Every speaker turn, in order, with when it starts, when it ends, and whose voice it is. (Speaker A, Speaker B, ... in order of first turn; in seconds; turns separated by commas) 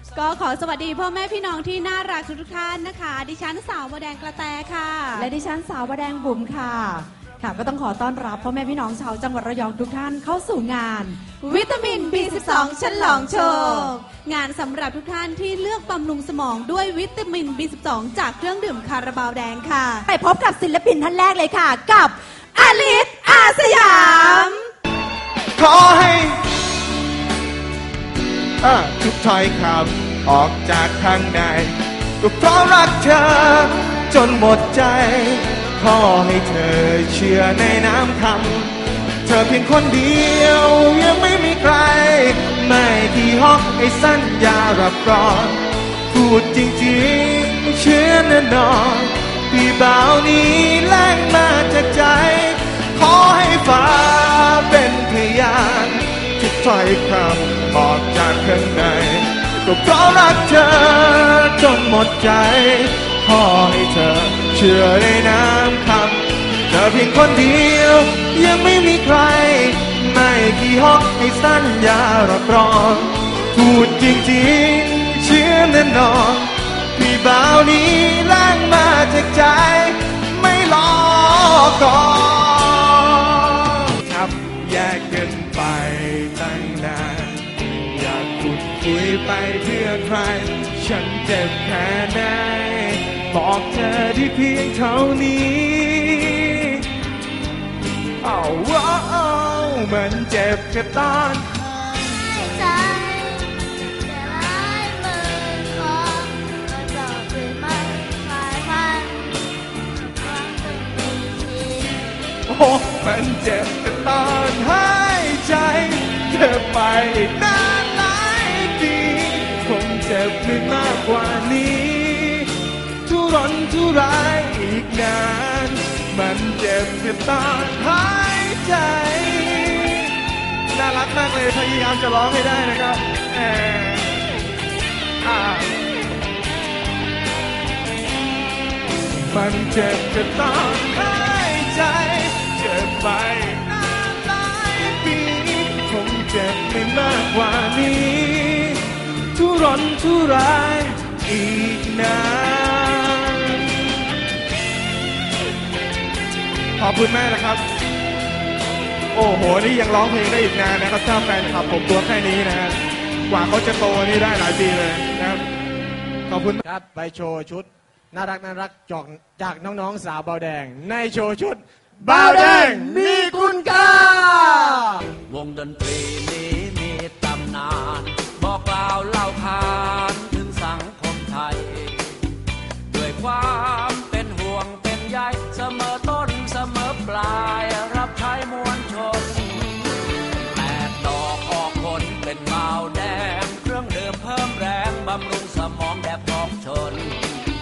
Speaker A: 0.1-5.3, Speaker B: 5.1-11.2, Speaker A: 11.4-20.0, Speaker B: 12.2-13.9, Speaker B: 20.1-22.1, Speaker A: 22.5-24.6, Speaker B: 23.3-24.5, Speaker C: 25.6-26.4, Speaker C: 28.6-96.8, Speaker C: 98.2-101.5, Speaker D: 102.1-109.3, Speaker D: 110.1-112.1, Speaker C: 112.5-122.5, Speaker C: 123.0-130.1, Speaker C: 130.7-134.2, Speaker C: 135.2-135.8, Speaker C: 139.3-148.8, Speaker C: 149.3-153.7, Speaker C: 156.8-157.6, Speaker C: 159.1-165.4, Speaker C: 166.3-166.6, Speaker E: 166.6-174.9, Speaker F: 175.3-182.1, Speaker F: 182.9-189.9, Speaker F: 190.4-197.4